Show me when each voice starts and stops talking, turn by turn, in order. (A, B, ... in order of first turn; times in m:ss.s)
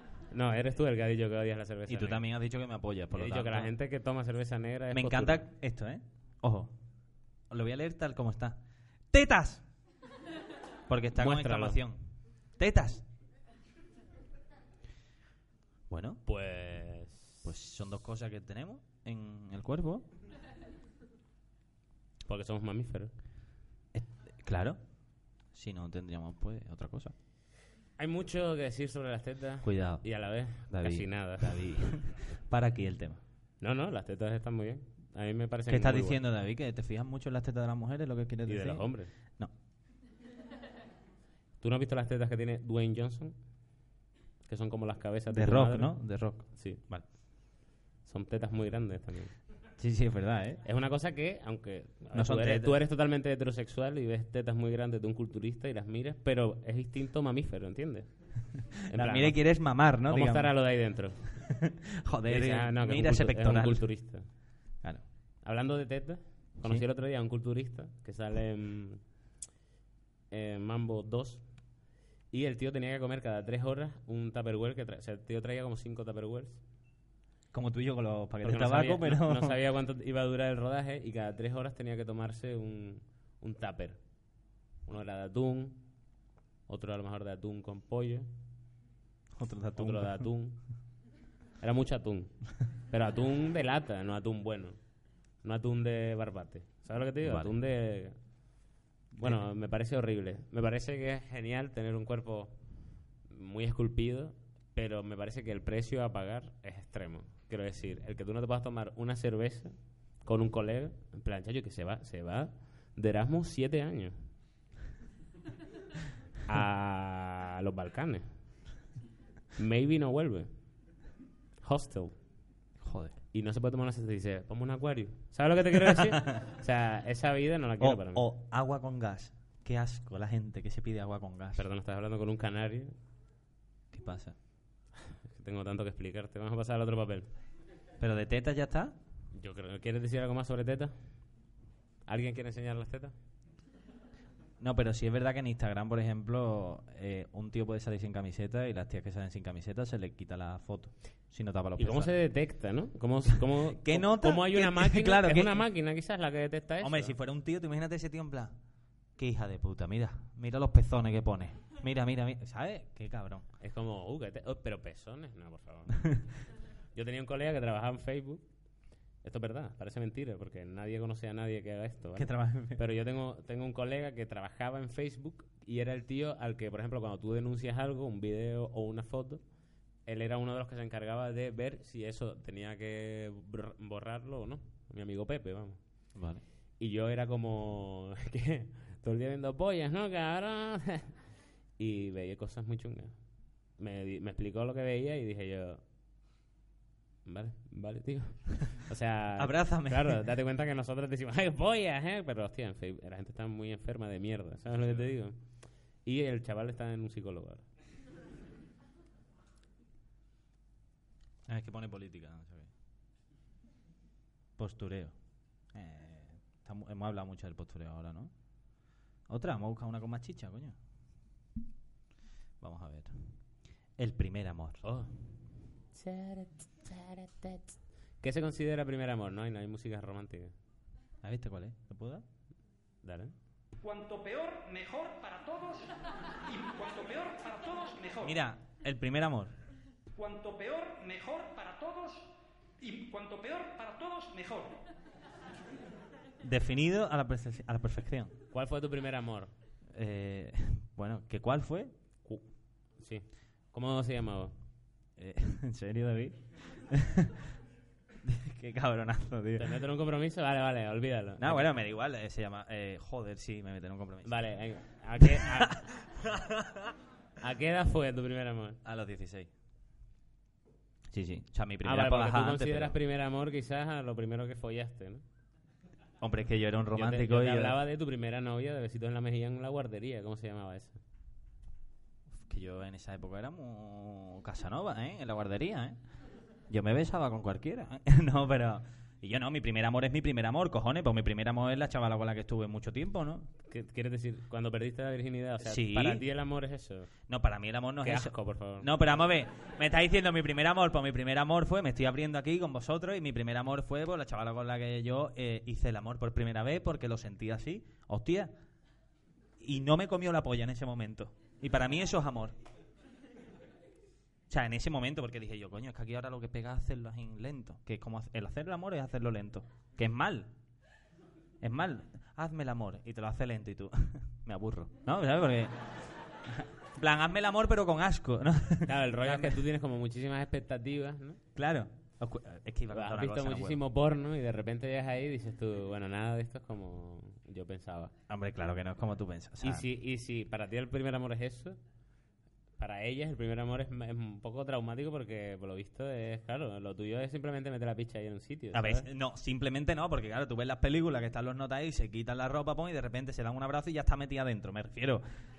0:00.3-0:02.2 A
0:01.9-0:03.7 B
0:03.1-0:05.4 A
0:04.9-0:06.7 B
0:07.5-0:09.6 B
0:10.9-0:12.0 B
0:11.2-0:11.8 A
0:12.6-0:13.0 B
0:15.9-0:16.2 B
0:16.3-0:17.4 A
0:17.4-0:20.1 B
0:22.3-0:23.1 A
0:23.9-0:24.8 B
0:25.5-0:27.1 B
0:28.0-0:31.6 A
0:29.6-0:33.2 B
0:33.6-0:36.2 A
0:35.7-0:39.5 B
0:38.5-0:39.1 A
0:41.6-0:43.3 A
0:44.4-0:47.1 A
0:45.3-0:47.1 B
0:48.0-0:49.4 A
0:49.8-0:50.6 B
0:50.6-0:58.1 A
0:52.1-0:52.8 B
0:58.6-0:59.4 A
0:58.9-1:00.5 B
1:00.1-1:01.4 A
1:01.4-1:03.9 B
1:02.3-1:04.3 A
1:05.4-1:09.0 A
1:10.3-1:11.5 A
1:12.3-1:16.6 A
1:17.5-1:19.6 B
1:18.4-1:24.0 A
1:24.8-1:25.8 A
1:26.7-1:28.3 A
1:29.4-1:30.3 B
1:29.8-1:30.6 A
1:31.6-1:34.8 A
1:35.4-1:38.1 A
1:37.2-1:37.5 B
1:39.1-1:39.4 B
1:39.2-1:42.5 A
1:43.3-1:54.1 A
1:56.5-1:58.3 A
1:59.6-2:00.5 A
2:01.6-2:02.1 A
2:02.8-2:03.2 B
2:03.3-2:08.2 A
2:07.8-2:11.6 B
2:11.6-2:12.9 A
2:13.9-2:14.4 B
2:15.3-2:17.3 A
2:18.0-2:19.0 B
2:19.3-2:20.9 A
2:22.1-2:23.1 A
2:24.6-2:32.2 B
2:31.8-2:37.1 A
2:33.5-2:35.6 B
2:36.8-2:38.5 B
2:39.2-2:43.5 B
2:43.6-2:46.1 A
2:46.9-2:48.4 A
2:49.2-2:59.4 A
2:52.2-2:52.8 B
3:00.0-3:05.8 A
3:06.1-3:06.4 B
3:06.8-3:11.1 A
3:11.8-3:13.2 A
3:13.8-3:15.8 A
3:17.2-3:25.4 A
3:19.4-3:20.2 B
3:26.0-3:27.6 A
3:31.5-3:32.7 B
3:34.6-3:35.1 B
3:35.7-3:38.3 B
3:39.3-3:40.8 B
3:42.6-3:43.3 B
3:44.0-3:44.8 B
3:44.8-3:45.1 A
3:45.9-3:50.5 A
3:51.2-3:52.2 B
3:53.0-3:53.3 A
3:53.8-3:58.3 C
3:58.2-3:59.5 B
4:00.1-4:04.8 C
4:06.4-4:08.3 B
4:08.5-4:09.5 A
4:09.9-4:11.9 B
4:13.0-4:14.5 A
4:15.2-4:17.5 B
4:18.2-4:19.8 B
4:19.6-4:21.7 A
4:21.4-4:24.3 B
4:24.2-4:25.8 A
4:25.2-4:26.9 B
4:27.4-4:28.8 A
4:28.8-4:29.5 B
4:31.1-4:33.0 B
4:31.8-4:35.2 A
4:36.2-4:37.8 B
4:36.9-4:41.0 A
4:42.3-4:46.0 B
4:46.7-4:53.5 B
4:53.7-4:57.1 A
4:55.6-4:56.2 B
4:57.3-5:08.5 B
4:58.0-4:58.9 A
5:09.6-5:12.5 B
5:14.5-5:20.5 B
5:21.6-5:25.9 B
5:26.4-5:29.6 B
5:28.8-5:31.4 A
5:31.5-5:33.8 B
5:32.9-5:38.1 A
5:38.3-5:39.8 B
5:39.6-5:41.8 A
5:42.8-5:49.1 A
5:48.7-5:55.2 B